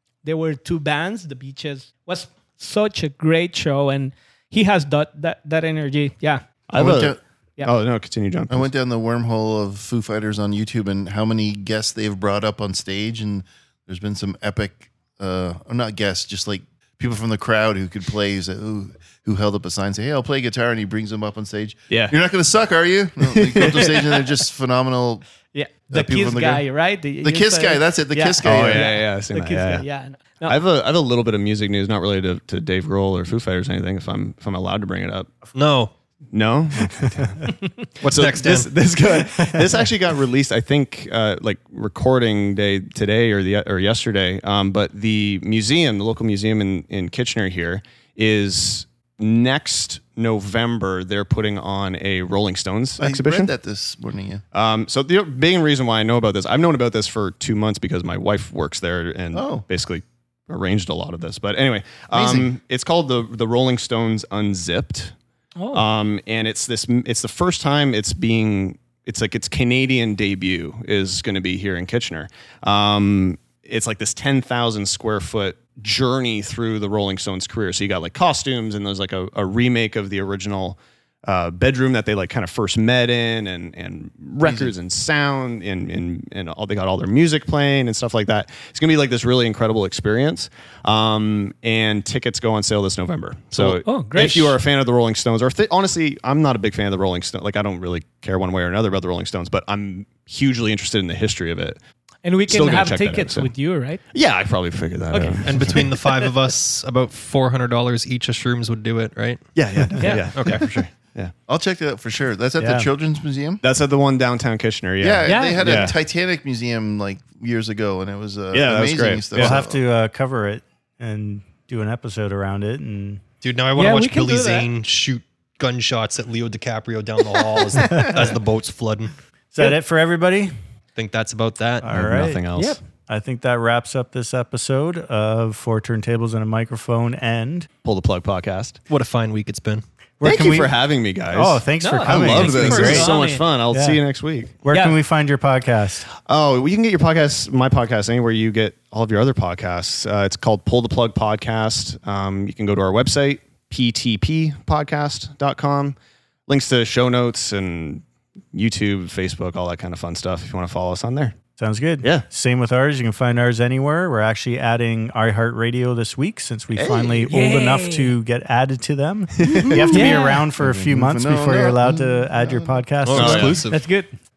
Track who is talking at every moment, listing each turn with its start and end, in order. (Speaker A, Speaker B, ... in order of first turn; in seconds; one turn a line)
Speaker A: 0.2-6.4
Speaker B: 6.7-8.7
Speaker C: 6.7-7.2
Speaker C: 8.5-25.3
Speaker B: 21.9-22.1
Speaker A: 23.6-23.9
Speaker A: 25.5-30.6
Speaker C: 25.9-26.6
Speaker C: 27.2-28.9
Speaker B: 28.4-29.8
Speaker B: 30.4-35.4
Speaker D: 35.5-35.9
Speaker B: 36.3-53.5
Speaker E: 37.0-37.3
Speaker D: 38.0-38.7
Speaker E: 39.3-39.8
Speaker C: 53.0-54.4
Speaker B: 54.5-65.1
Speaker C: 59.3-59.6
Speaker C: 62.1-62.5
Speaker A: 65.6-65.8
Speaker B: 65.7-101.8
Speaker C: 84.4-84.7
Speaker A: 93.6-94.6
Speaker A: 102.2-104.0
Speaker B: 102.5-103.5
Speaker B: 104.1-105.8
Speaker A: 105.1-106.3
Speaker D: 105.4-109.4
Speaker B: 109.5-111.3
Speaker E: 109.8-110.1
Speaker A: 110.0-110.3
Speaker D: 110.3-110.7
Speaker C: 111.5-113.6
Speaker E: 112.6-112.9
Speaker B: 113.6-116.0
Speaker C: 115.0-119.8
Speaker A: 115.2-115.9
Speaker B: 118.5-119.6
Speaker E: 119.3-123.2
Speaker D: 123.4-129.1
Speaker A: 123.8-124.7
Speaker E: 127.9-128.3
Speaker E: 129.5-130.5
Speaker D: 130.9-131.9
Speaker E: 131.8-132.4
Speaker B: 131.9-132.8
Speaker E: 133.1-137.7
Speaker B: 137.8-138.8
Speaker D: 138.9-139.8
Speaker E: 140.2-140.8
Speaker B: 140.2-144.5
Speaker E: 141.3-143.1
Speaker A: 141.8-143.5
Speaker E: 143.7-146.1
Speaker A: 144.7-145.0
Speaker B: 146.3-155.9
Speaker B: 156.5-161.3
Speaker E: 161.6-173.6
Speaker B: 166.7-167.3
Speaker A: 167.3-168.1
Speaker B: 169.4-170.1
Speaker A: 169.4-170.4
Speaker C: 170.1-172.9
Speaker D: 173.0-173.8
Speaker B: 173.1-173.7
Speaker A: 173.7-174.1